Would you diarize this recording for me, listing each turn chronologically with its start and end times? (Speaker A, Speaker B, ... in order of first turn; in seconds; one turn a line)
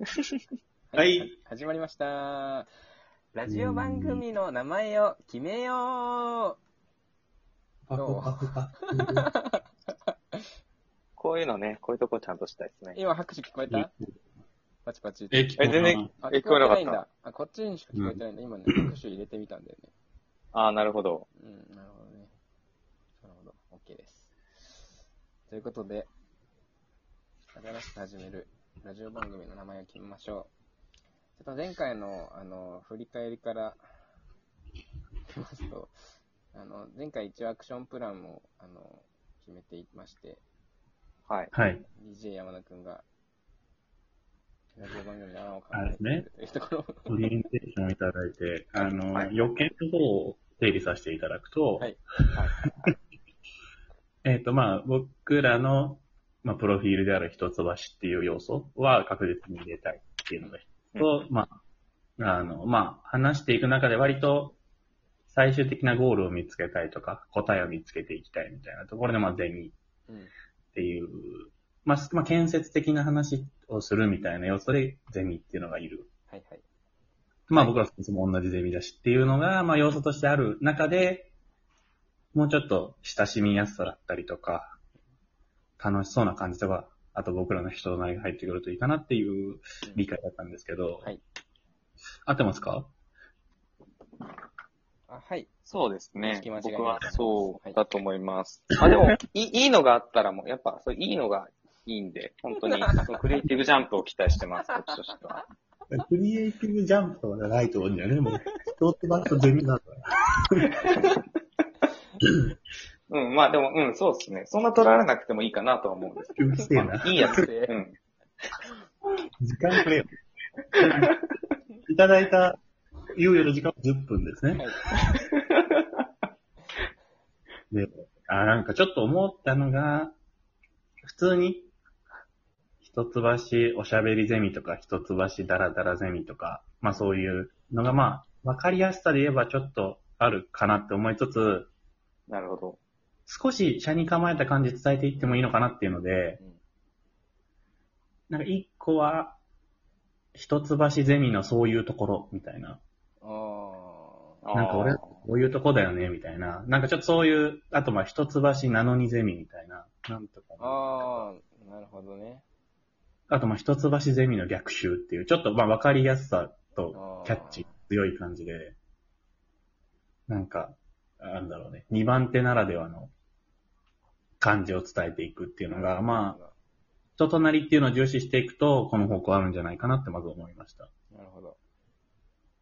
Speaker A: 0.9-2.7
Speaker B: 0.9-1.3
Speaker A: 3.3-6.6
Speaker B: 3.4-4.2
Speaker B: 7.9-9.3
Speaker A: 7.9-10.4
Speaker C: 11.2-13.0
Speaker A: 12.9-13.9
Speaker B: 13.7-14.2
Speaker A: 14.8-15.6
Speaker B: 15.3-16.1
Speaker C: 15.6-17.0
Speaker A: 16.2-19.9
Speaker B: 17.9-18.9
Speaker C: 20.5-21.3
Speaker A: 21.4-22.3
Speaker A: 23.2-24.3
Speaker A: 25.5-26.1
Speaker A: 27.5-30.5
Speaker A: 31.4-33.8
Speaker A: 35.3-35.9
Speaker A: 36.5-40.4
Speaker C: 41.3-41.5
Speaker B: 41.5-41.9
Speaker A: 41.9-43.0
Speaker A: 44.8-47.1
Speaker B: 45.7-46.2
Speaker B: 47.1-51.9
Speaker C: 49.1-49.6
Speaker C: 52.3-52.9
Speaker B: 54.2-61.6
Speaker C: 60.9-61.2
Speaker B: 62.2-64.6
Speaker B: 65.3-69.8
Speaker A: 70.1-70.3
Speaker B: 70.7-76.1
Speaker A: 76.3-76.6
Speaker B: 77.5-81.3
Speaker A: 77.5-77.8
Speaker B: 82.3-84.8
Speaker B: 85.8-91.1
Speaker B: 92.2-92.9
Speaker A: 95.1-95.5
Speaker C: 95.6-105.4
Speaker A: 96.2-97.8
Speaker B: 105.9-110.9
Speaker C: 113.1-118.0
Speaker B: 116.3-117.5
Speaker A: 117.2-117.8
Speaker B: 119.4-120.1
Speaker B: 120.7-121.1
Speaker C: 120.8-121.3
Speaker B: 121.8-122.6
Speaker B: 123.1-124.6
Speaker A: 124.5-124.9
Speaker C: 125.3-126.0
Speaker B: 127.7-130.1
Speaker B: 131.0-131.7
Speaker B: 132.8-141.7
Speaker C: 142.3-142.8
Speaker B: 143.2-146.4
Speaker A: 145.2-145.4
Speaker B: 148.3-149.4
Speaker B: 150.3-152.8
Speaker A: 153.2-154.4
Speaker C: 154.4-155.2
Speaker B: 154.5-161.3
Speaker A: 160.6-162.4
Speaker B: 163.3-168.8
Speaker A: 166.9-167.7
Speaker B: 170.3-173.1
Speaker B: 174.4-176.4
Speaker A: 175.7-176.5
Speaker B: 177.2-180.9
Speaker A: 181.1-181.6